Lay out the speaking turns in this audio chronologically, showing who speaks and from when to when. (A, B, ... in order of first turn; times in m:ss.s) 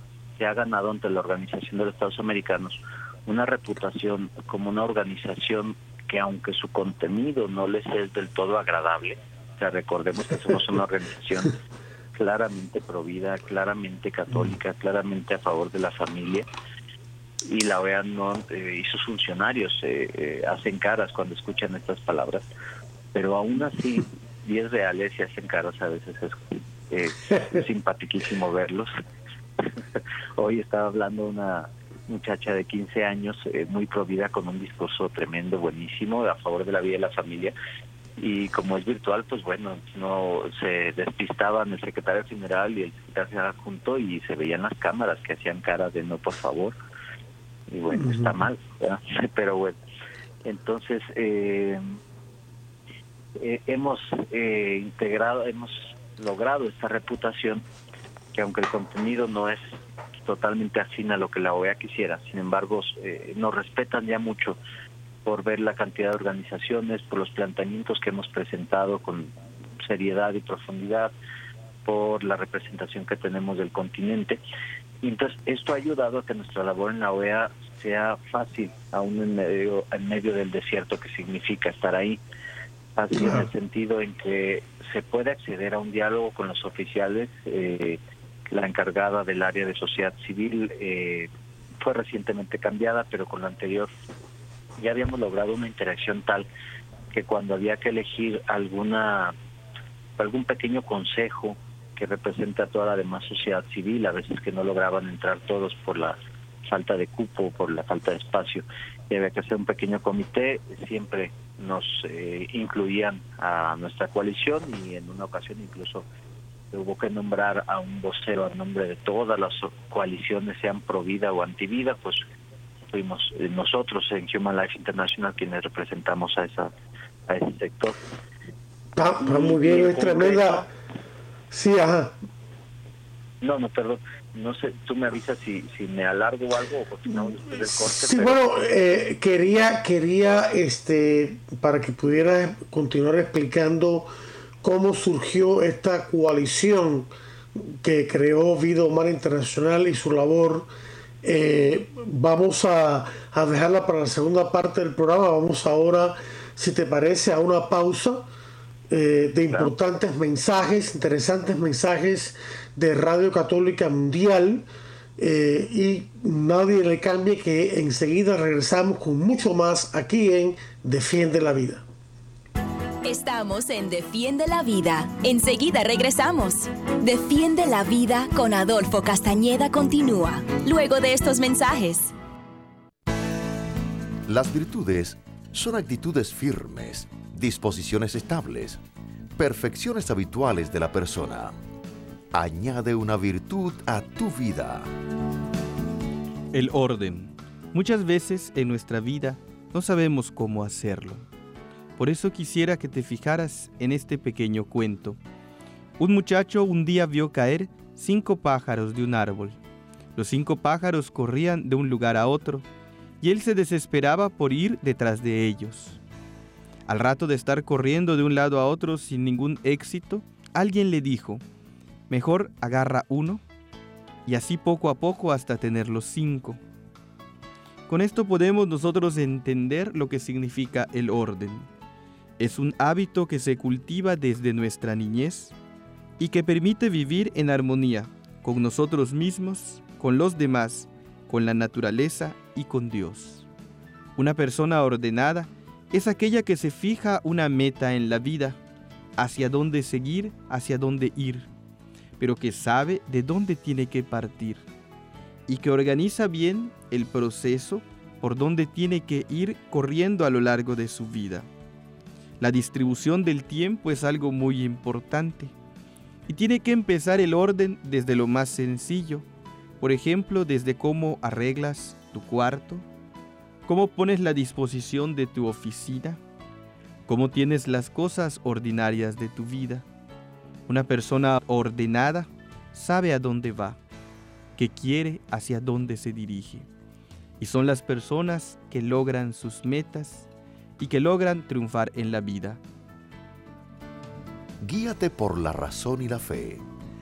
0:00.4-0:11.6 A
0:12.2-0:16.5 A
0:17.4-0:22.4 A
0:23.1-0:28.9 A
0:29.7-0:37.6 A
0:38.2-0:46.8 A
0:47.7-0:49.8 A
0:47.9-0:48.4 B
0:50.4-0:52.0 A
0:53.4-0:57.6 A
0:58.3-1:04.6 A
1:05.2-1:11.1 A
1:11.9-1:14.4 A
1:15.0-1:22.2 A
1:23.0-1:31.3 A
1:23.2-1:23.5 B
1:31.8-1:33.9 A
1:34.8-1:36.5 A
1:37.1-1:39.4 A
1:40.2-1:56.0 A
1:56.7-2:02.2 A
2:02.9-2:06.7 A
2:07.3-2:08.0 A
2:09.0-2:10.7 B
2:09.2-2:10.7 A
2:11.5-2:12.2 B
2:13.4-2:18.4 A
2:17.6-2:24.1 B
2:24.6-2:30.7 B
2:31.2-2:38.3 B
2:38.9-2:44.7 B
2:45.2-2:51.9 B
2:53.0-3:02.1 C
3:04.3-3:08.8 D
3:09.4-3:11.6 D
3:12.3-3:14.9 D
3:16.5-3:21.2 E
3:22.0-3:25.2 E
3:26.0-3:29.6 E
3:30.2-3:32.6 E
3:33.2-3:36.0 E
3:36.9-3:41.4 E
3:42.1-3:43.4 E
3:44.3-3:46.6 E
3:47.9-3:51.7 E
3:52.4-3:55.5 E
3:56.2-4:03.5 E
4:04.2-4:08.6 E
4:09.2-4:11.5 E
4:12.2-4:14.6 E
4:15.5-4:21.5 E
4:22.4-4:25.5 E
4:26.3-4:29.3 E
4:29.8-4:32.9 E
4:33.7-4:36.2 E
4:37.1-4:39.8 E
4:40.7-4:43.8 E
4:44.6-4:46.7 E
4:47.4-4:50.3 E
4:50.8-4:52.6 E
4:54.6-4:56.6 D